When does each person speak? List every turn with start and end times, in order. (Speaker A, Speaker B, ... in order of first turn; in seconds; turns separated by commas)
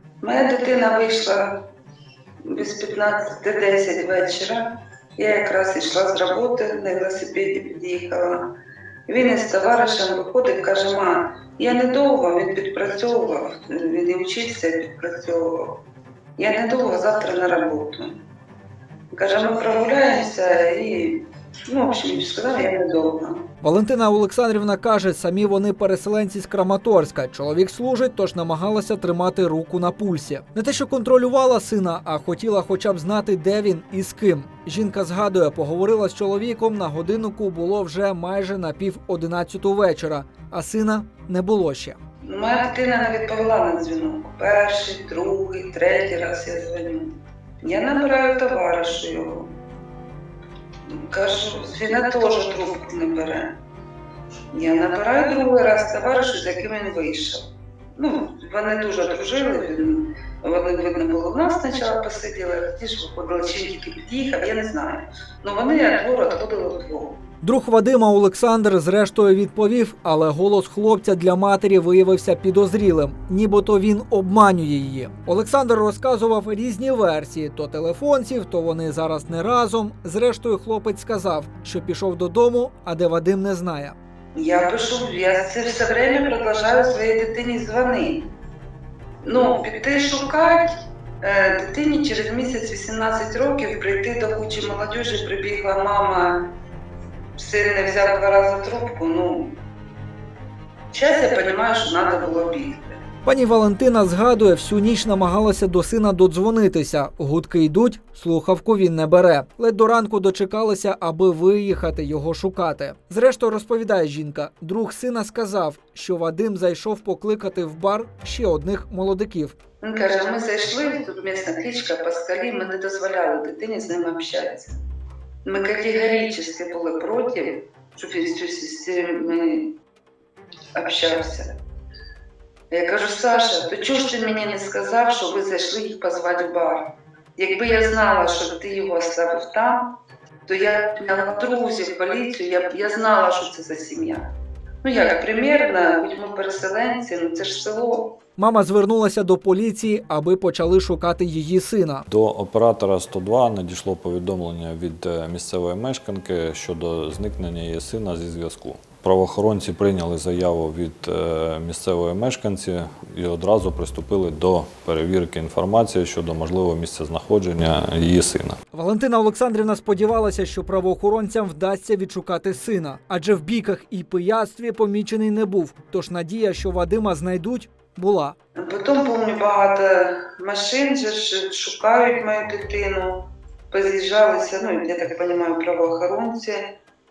Speaker A: 0.2-1.6, Speaker A: 2.5-8.5, Speaker A: 9.1-15.8, Speaker A: 16.4-18.2, Speaker A: 19.1-23.4, Speaker B: 23.6-42.0, Speaker A: 42.2-49.5, Speaker A: 50.9-53.5, Speaker A: 54.5-57.4, Speaker A: 58.0-67.2, Speaker B: 67.4-84.0, Speaker A: 84.3-88.3, Speaker A: 89.2-96.4, Speaker A: 97.3-99.6, Speaker A: 100.9-103.0, Speaker B: 103.2-119.6, Speaker A: 119.8-124.8, Speaker A: 125.4-129.8, Speaker A: 130.7-131.6, Speaker A: 132.7-139.9, Speaker A: 140.5-144.2, Speaker A: 144.8-148.2, Speaker B: 148.4-152.1, Speaker C: 152.1-168.6, Speaker B: 168.7-178.4, Speaker A: 178.6-186.7